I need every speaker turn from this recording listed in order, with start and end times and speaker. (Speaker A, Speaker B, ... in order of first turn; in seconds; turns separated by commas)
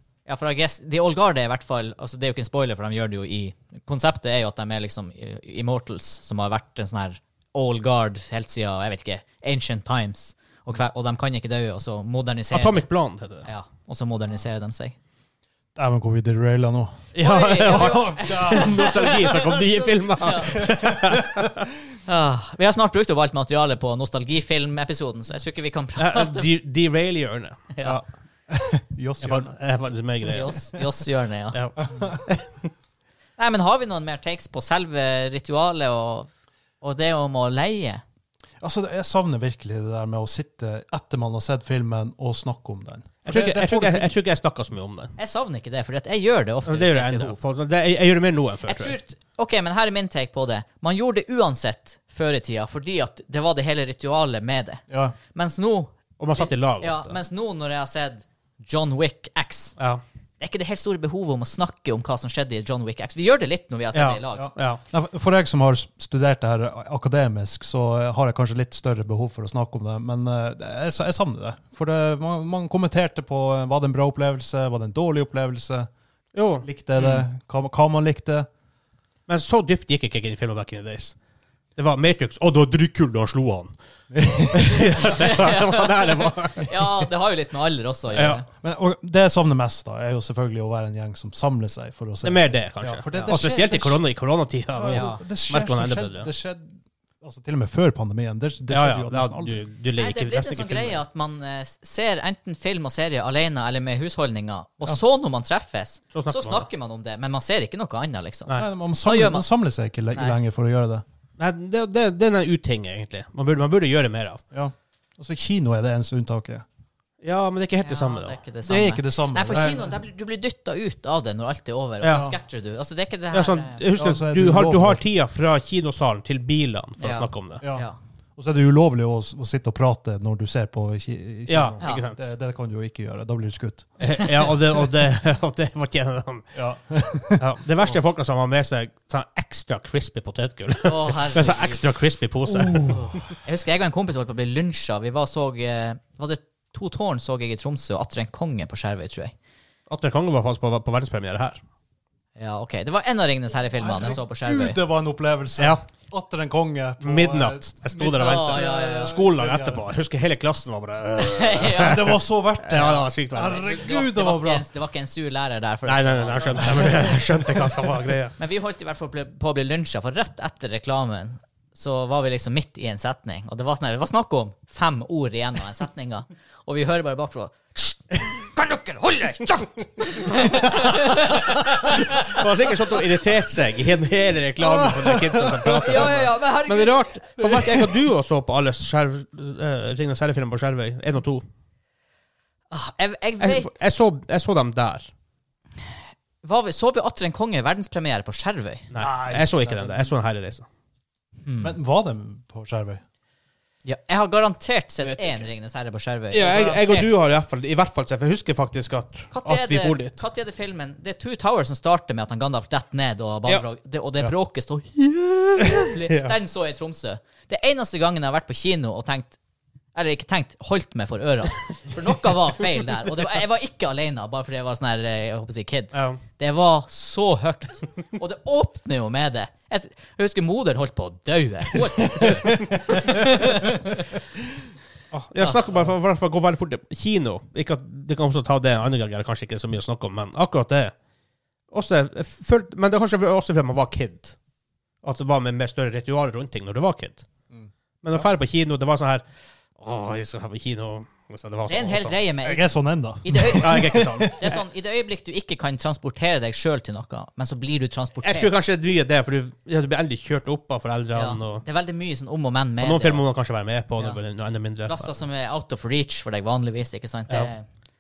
Speaker A: 0.3-12.9, Speaker B: 12.5-13.5, Speaker A: 13.4-14.9, Speaker C: 15.8-17.1, Speaker B: 17.1-21.6, Speaker A: 17.2-19.4, Speaker C: 17.6-19.4, Speaker A: 20.2-20.6, Speaker C: 20.5-21.5, Speaker A: 22.1-26.5, Speaker B: 25.9-27.6, Speaker A: 27.7-28.0, Speaker C: 27.8-29.5, Speaker B: 29.2-30.8, Speaker A: 30.3-31.8, Speaker B: 31.5-32.6, Speaker C: 31.9-32.2, Speaker A: 33.4-36.3, Speaker A: 36.8-38.0, Speaker C: 38.6-44.1, Speaker B: 43.3-45.1, Speaker A: 45.2-47.4, Speaker B: 46.6-49.0, Speaker A: 48.6-59.8, Speaker C: 54.9-55.1, Speaker B: 56.2-57.2, Speaker B: 59.8-60.0, Speaker A: 60.4-64.5, Speaker B: 63.9-64.8, Speaker C: 64.3-75.9, Speaker B: 76.3-76.6, Speaker C: 76.6-78.5, Speaker A: 77.0-77.2, Speaker B: 79.3-81.2, Speaker B: 81.8-83.8, Speaker C: 84.1-84.9, Speaker B: 84.5-86.9, Speaker A: 84.9-88.5, Speaker B: 88.1-88.4, Speaker C: 88.6-94.0, Speaker B: 92.2-96.3, Speaker A: 93.1-93.7, Speaker C: 94.8-99.6, Speaker A: 94.9-95.2, Speaker B: 98.7-101.0, Speaker A: 100.0-108.5, Speaker B: 106.1-106.7, Speaker C: 108.5-111.0, Speaker A: 109.0-109.4, Speaker A: 110.1-110.4, Speaker B: 111.4-114.4, Speaker C: 114.5-116.6, Speaker B: 117.2-118.4, Speaker A: 117.8-123.8, Speaker C: 118.6-120.0, Speaker B: 119.5-119.9, Speaker B: 122.0-122.3, Speaker C: 122.1-122.4, Speaker B: 123.3-127.6, Speaker C: 123.9-125.0, Speaker A: 127.0-128.0, Speaker C: 127.6-133.9, Speaker B: 131.5-132.3, Speaker A: 131.8-132.1, Speaker B: 134.0-136.5, Speaker C: 136.6-137.4, Speaker B: 137.4-143.3, Speaker A: 140.8-141.9, Speaker C: 142.6-143.0, Speaker A: 142.9-149.3, Speaker B: 149.9-151.6, Speaker A: 152.4-154.8, Speaker C: 153.8-159.8, Speaker B: 155.6-155.8, Speaker B: 157.0-163.7, Speaker A: 158.2-159.2, Speaker A: 161.2-162.2, Speaker C: 161.7-164.7, Speaker A: 162.8-167.2, Speaker B: 165.9-168.3, Speaker A: 168.4-182.4, Speaker B: 179.5-191.4, Speaker C: 184.6-186.3, Speaker A: 185.7-187.1, Speaker C: 187.4-187.9, Speaker A: 192.7-193.7, Speaker B: 193.4-195.1, Speaker A: 196.4-198.9, Speaker B: 198.9-200.7, Speaker C: 199.0-200.1, Speaker A: 201.4-201.8, Speaker C: 201.6-203.0, Speaker A: 203.8-207.2, Speaker B: 205.0-205.4, Speaker B: 206.3-210.2, Speaker A: 209.3-219.3, Speaker B: 215.8-216.4, Speaker A: 219.9-234.1, Speaker B: 225.9-226.2, Speaker B: 235.1-240.9, Speaker B: 241.7-244.4, Speaker B: 245.0-247.3, Speaker C: 247.5-248.2, Speaker B: 248.0-249.2, Speaker B: 249.8-252.2, Speaker A: 251.7-252.7, Speaker C: 252.4-254.5, Speaker A: 253.2-258.5, Speaker B: 253.6-254.3, Speaker B: 258.2-261.6, Speaker A: 261.1-263.2, Speaker B: 262.8-265.1, Speaker A: 264.9-267.6